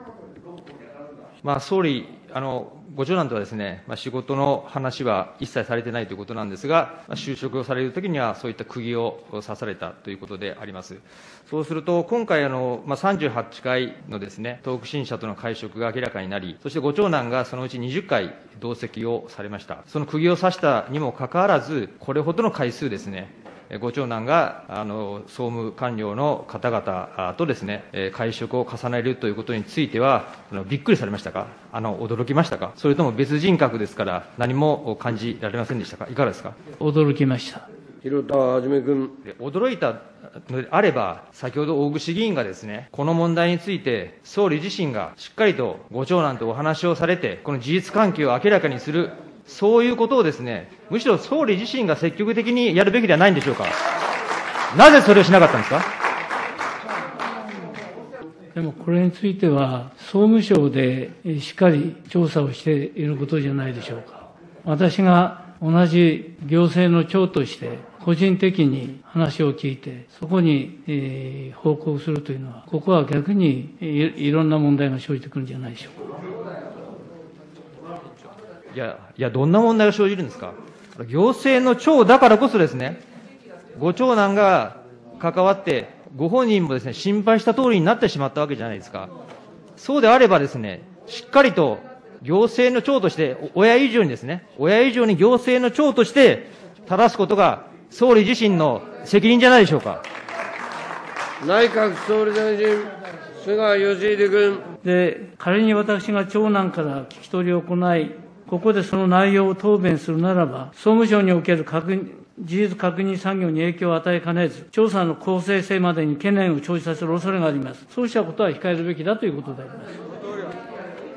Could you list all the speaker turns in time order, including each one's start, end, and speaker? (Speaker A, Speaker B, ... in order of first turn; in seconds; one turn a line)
Speaker A: 1.4-36.5
Speaker B: 36.8-37.6
Speaker C: 38.0-39.1
Speaker A: 39.2-53.7
Speaker A: 54.7-55.9
Speaker B: 58.5-76.0
Speaker A: 78.7-83.0
Speaker A: 83.8-89.1
Speaker A: 89.8-100.0
Speaker C: 101.4-104.6
Speaker B: 104.8-120.0